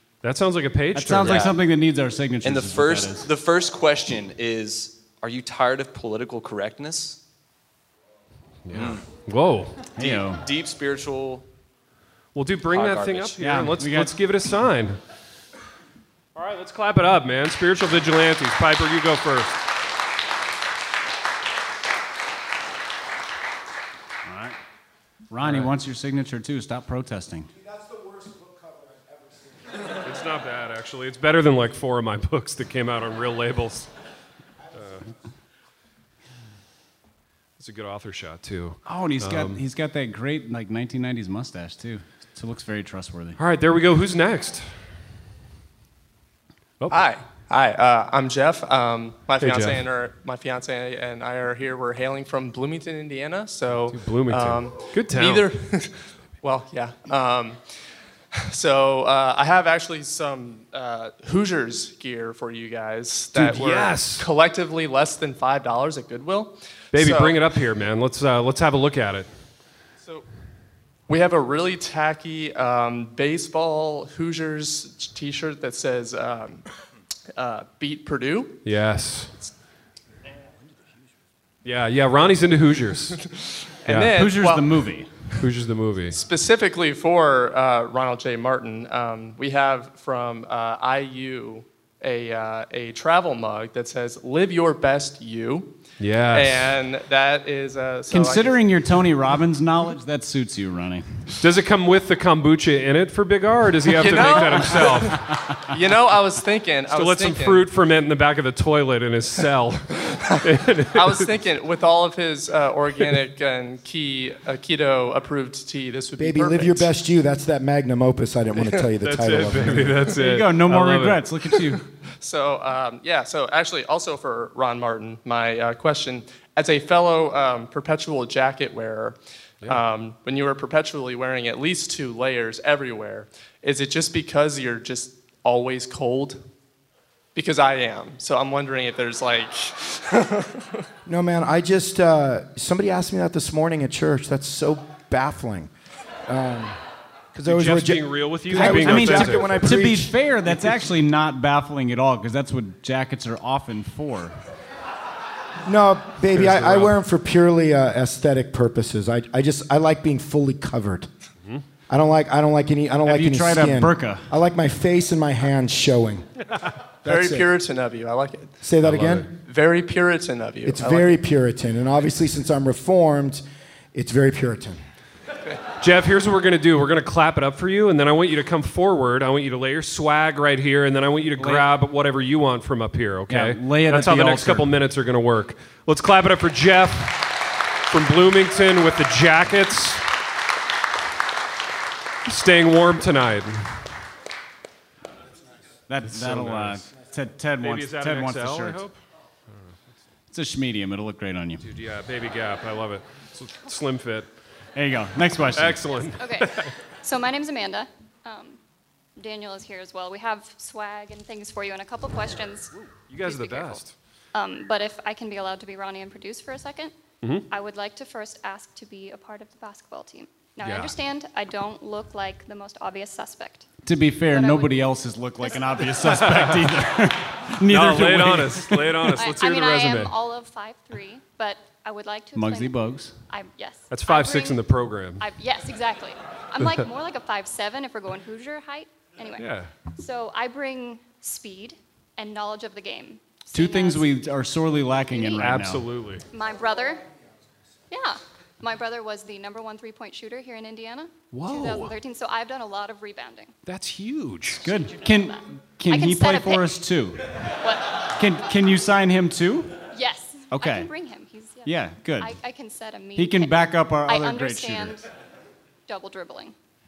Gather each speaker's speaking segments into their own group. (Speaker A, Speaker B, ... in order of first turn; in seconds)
Speaker A: 0.2-1.5, 8.7-9.9, 12.3-15.0, 16.3-19.6, 25.4-25.7, 30.0-33.9, 34.7-35.0, 37.6-39.6, 43.4-44.7, 49.4-49.8, 53.9-55.5, 63.3-64.3, 66.9-69.3, 78.6-79.3, 81.6-83.2, 83.9-84.2, 85.4-86.2, 96.0-96.7, 101.4-105.2, 106.9-111.3, 119.0-121.2, 147.4-149.6, 156.3-156.9, 168.8-169.2, 175.8-187.3, 187.9-190.0, 192.2-193.7, 196.1-196.8, 197.6-198.9, 201.6-204.3, 205.6-206.7, 213.1-213.9, 220.6-220.9, 226.0-226.7, 227.7-230.1, 233.9-235.2, 239.3-239.7, 245.3-246.2, 251.3-251.9, 253.7-254.7
Speaker B: 0.9-3.3, 9.9-10.4, 13.4-14.1, 24.2-24.6, 25.3-27.5, 38.9-43.4, 84.1-85.1, 98.1-101.3, 104.3-104.8, 120.2-121.8, 148.5-154.3, 163.1-164.3, 181.4-181.7, 183.3-184.7, 195.9-198.8, 200.3-201.6, 204.8-206.0, 223.8-229.1, 232.3-233.2, 243.5-245.8, 254.5-257.4, 258.1-259.8, 260.5-260.9, 261.6-262.4, 263.1-265.0
Speaker C: 1.2-1.6, 2.4-7.2, 8.7-9.0, 10.0-11.4, 12.7-13.3
Speaker D: 27.8-29.2, 116.2-120.1, 141.1-145.7, 146.3-146.8, 147.3-150.1, 155.7-161.1, 161.9-166.2, 167.0-167.5, 168.6-169.3, 170.7-173.4, 173.9-174.8
Speaker E: 46.9-57.6, 58.3-67.4, 71.1-76.6, 77.3-78.6, 83.3-84.8, 86.1-95.7, 96.3-98.6, 103.9-107.7, 110.9-116.9, 122.2-136.4, 137.3-140.8, 167.0-168.6, 169.4-171.2
Speaker F: 206.2-208.6, 209.2-212.7, 213.2-213.8, 214.3-216.9, 217.5-223.7, 224.3-225.8, 229.2-234.6, 235.2-244.2, 245.1-245.4, 246.3-247.0, 247.9-253.5, 255.0-256.8, 257.6-258.0, 259.9-265.1, 265.9-266.5